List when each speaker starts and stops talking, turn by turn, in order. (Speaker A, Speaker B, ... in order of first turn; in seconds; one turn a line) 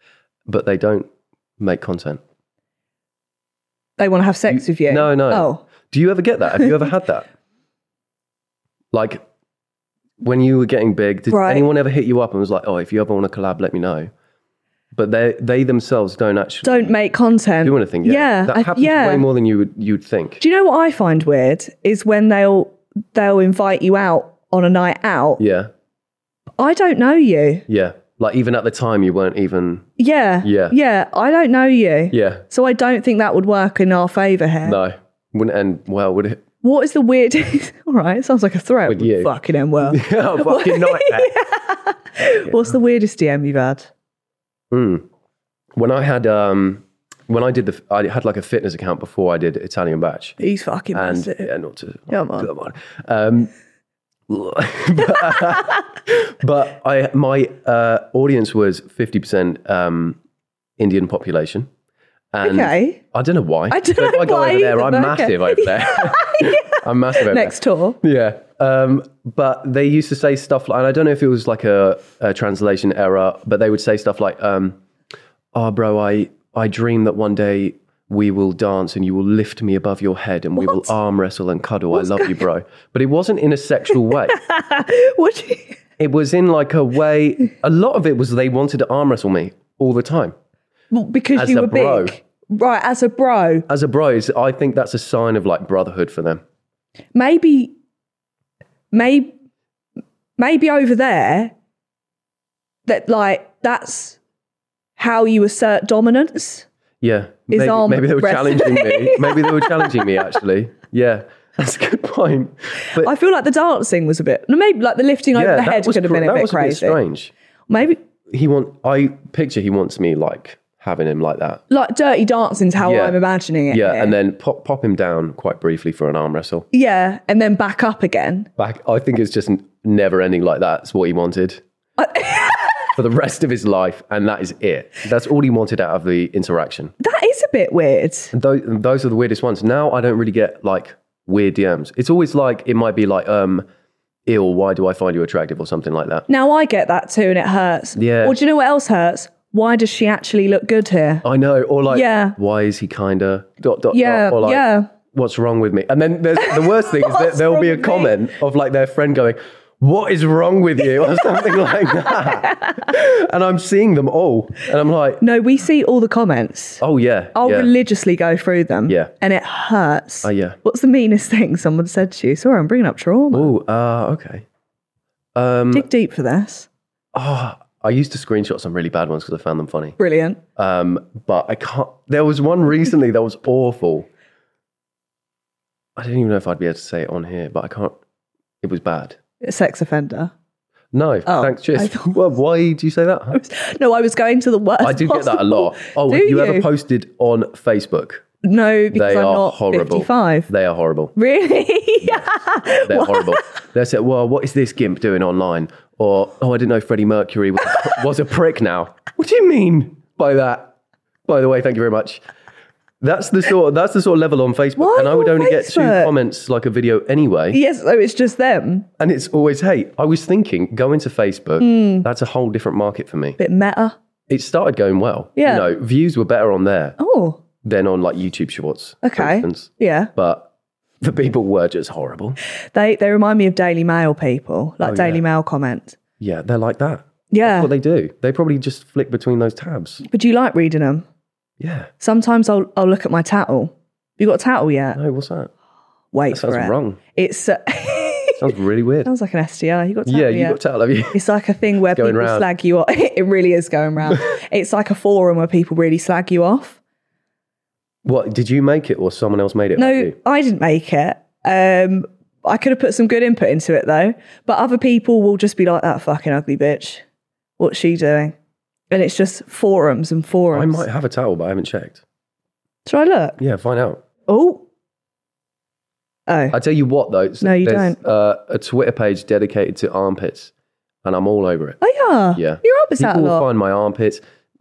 Speaker A: 0.5-2.2
Speaker B: 4.0-5.6
Speaker A: 4.5-7.3
Speaker A: 8.9-9.2
Speaker A: 10.2-14.1
Speaker B: 11.3-11.7
Speaker A: 14.9-16.9
Speaker B: 16.6-19.2
Speaker A: 17.6-20.4
Speaker B: 20.4-25.4
Speaker A: 25.4-25.7
Speaker B: 26.6-27.6
Speaker A: 27.7-29.9
Speaker B: 30.0-34.8
Speaker A: 30.4-30.8
Speaker A: 32.1-32.4
Speaker A: 34.6-36.4
Speaker B: 36.6-43.9
Speaker A: 38.9-41.3
Speaker A: 44.7-45.0
Speaker A: 45.8-50.4
Speaker B: 50.4-51.5
Speaker A: 50.9-53.5
Speaker B: 52.1-52.5
Speaker A: 54.3-60.2
Speaker A: 60.8-61.7
Speaker A: 62.3-74.8
Speaker B: 62.4-63.0
Speaker B: 63.7-68.0
Speaker A: 75.5-84.4
Speaker B: 80.6-80.9
Speaker B: 81.9-82.4
Speaker B: 84.3-85.8
Speaker A: 86.0-90.3
Speaker B: 90.9-93.7
Speaker A: 91.3-92.2
Speaker A: 93.7-96.4
Speaker B: 97.1-97.7
Speaker B: 98.9-99.3
Speaker B: 100.4-101.5
Speaker B: 102.9-104.2
Speaker B: 105.0-106.7
Speaker A: 107.0-113.1
Speaker B: 107.5-110.1
Speaker B: 113.0-117.0
Speaker A: 115.3-117.3
Speaker B: 117.7-118.0
Speaker A: 118.3-121.6
Speaker B: 121.7-124.1
Speaker A: 122.8-123.2
Speaker A: 123.7-126.7
Speaker B: 126.7-128.5
Speaker A: 128.6-131.6
Speaker B: 132.0-132.9
Speaker A: 132.9-136.9
Speaker B: 137.0-138.3
Speaker A: 138.3-143.7
Speaker A: 144.2-146.2
Speaker B: 146.3-151.2
Speaker A: 147.9-148.4
Speaker A: 151.2-165.2
Speaker B: 151.9-152.3
Speaker B: 153.9-154.9
Speaker B: 156.3-158.2
Speaker B: 162.1-162.8
Speaker B: 165.2-166.8
Speaker A: 166.8-167.7
Speaker B: 167.3-173.5
Speaker A: 170.2-170.6
Speaker A: 173.3-174.4
Speaker A: 175.3-175.9
Speaker B: 175.7-176.7
Speaker A: 177.1-180.0
Speaker B: 180.0-180.4
Speaker A: 180.6-184.1
Speaker A: 185.9-188.0
Speaker A: 188.6-189.2
Speaker B: 189.4-190.3
Speaker A: 190.9-193.4
Speaker B: 191.2-192.1
Speaker B: 193.3-196.7
Speaker A: 194.8-198.2
Speaker B: 198.4-200.5
Speaker A: 198.9-201.1
Speaker B: 201.2-203.4
Speaker A: 202.0-202.3
Speaker A: 202.8-210.7
Speaker A: 211.3-212.2
Speaker A: 213.0-217.6
Speaker B: 214.8-216.1
Speaker B: 217.5-218.9
Speaker A: 219.0-223.4
Speaker B: 221.6-222.1
Speaker B: 223.4-223.9
Speaker A: 224.3-227.0
Speaker B: 225.4-225.7
Speaker B: 227.0-227.4
Speaker A: 227.6-230.5
Speaker B: 229.0-230.1
Speaker A: 231.0-232.4
Speaker B: 232.7-235.9
Speaker A: 234.8-235.2
Speaker A: 236.2-240.0
Speaker B: 237.3-237.7
Speaker B: 240.0-241.1
Speaker A: 241.6-241.9
Speaker B: 242.0-245.0
Speaker A: 244.9-245.5
Speaker B: 246.1-248.5
Speaker A: 246.3-247.0
Speaker A: 248.4-249.1
Speaker B: 249.0-250.6
Speaker A: 250.1-251.2
Speaker B: 251.1-256.8
Speaker A: 251.9-252.5
Speaker A: 258.0-260.1
Speaker B: 259.8-267.0
Speaker B: 267.6-268.3
Speaker B: 268.9-270.8
Speaker A: 270.5-272.0
Speaker B: 272.9-273.4
Speaker A: 273.4-274.0
Speaker B: 274.3-274.6
Speaker B: 276.3-276.6
Speaker A: 276.5-280.5
Speaker B: 277.4-278.0
Speaker A: 281.0-281.8
Speaker B: 281.8-283.4
Speaker A: 282.3-284.2